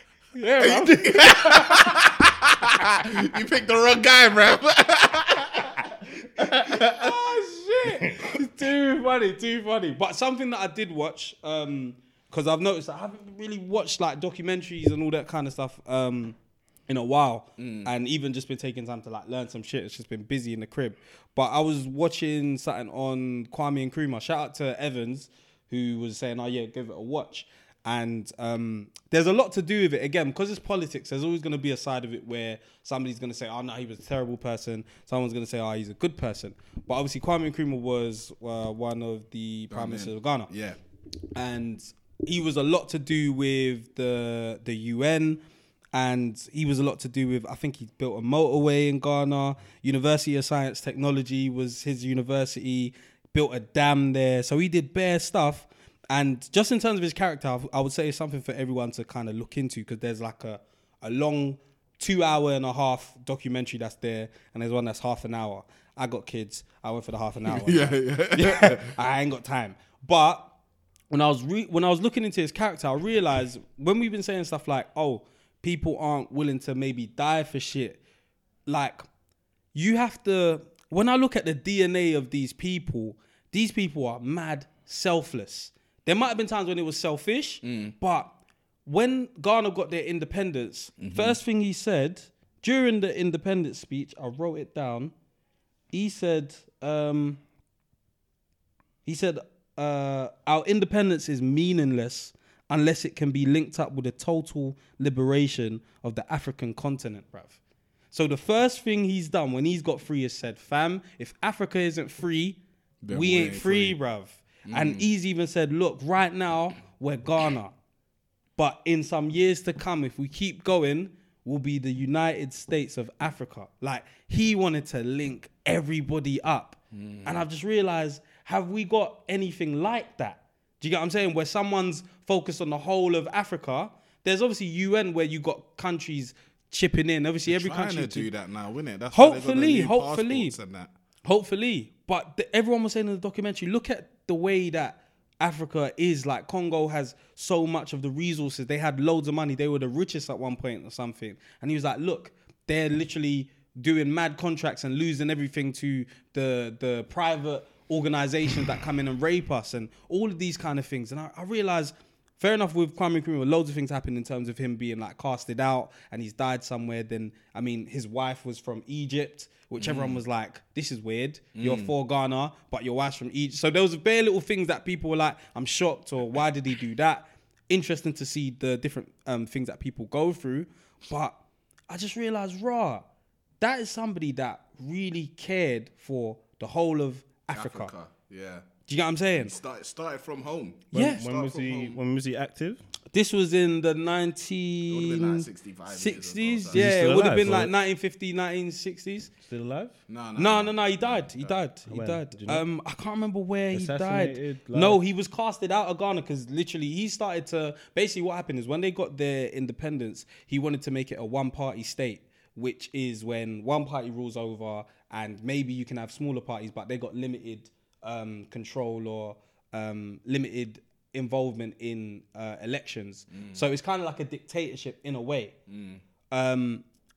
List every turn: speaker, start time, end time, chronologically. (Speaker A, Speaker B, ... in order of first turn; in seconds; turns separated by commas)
Speaker A: 0.3-2.0, Speaker B: 0.6-7.1, Speaker A: 6.4-16.4, Speaker A: 16.9-40.5, Speaker B: 17.6-17.9, Speaker B: 39.7-40.8, Speaker A: 41.3-45.4, Speaker A: 45.9-70.5, Speaker B: 67.5-68.9, Speaker A: 71.1-78.0, Speaker A: 78.7-79.0, Speaker A: 79.7-88.3, Speaker B: 87.6-87.9, Speaker A: 88.8-95.1, Speaker B: 91.0-91.4, Speaker A: 95.9-97.4, Speaker A: 99.0-107.6, Speaker A: 108.1-112.6, Speaker B: 113.0-114.0, Speaker A: 113.1-117.7, Speaker B: 114.6-115.0, Speaker A: 118.6-138.3, Speaker B: 126.9-127.4, Speaker B: 137.5-140.9, Speaker A: 139.1-140.5, Speaker A: 141.2-181.3, Speaker B: 169.8-170.2, Speaker B: 171.6-171.9, Speaker A: 181.9-183.0, Speaker A: 183.6-187.9, Speaker B: 187.5-188.7, Speaker A: 188.9-189.6, Speaker B: 189.4-192.0, Speaker C: 190.9-192.8, Speaker A: 190.9-191.2, Speaker A: 193.1-199.3, Speaker B: 194.9-197.6, Speaker C: 196.7-197.7, Speaker C: 199.4-199.9, Speaker B: 200.1-201.6, Speaker A: 200.4-225.5, Speaker C: 201.9-202.6, Speaker C: 203.7-205.0, Speaker B: 223.3-223.6, Speaker B: 225.7-226.0, Speaker A: 226.3-226.8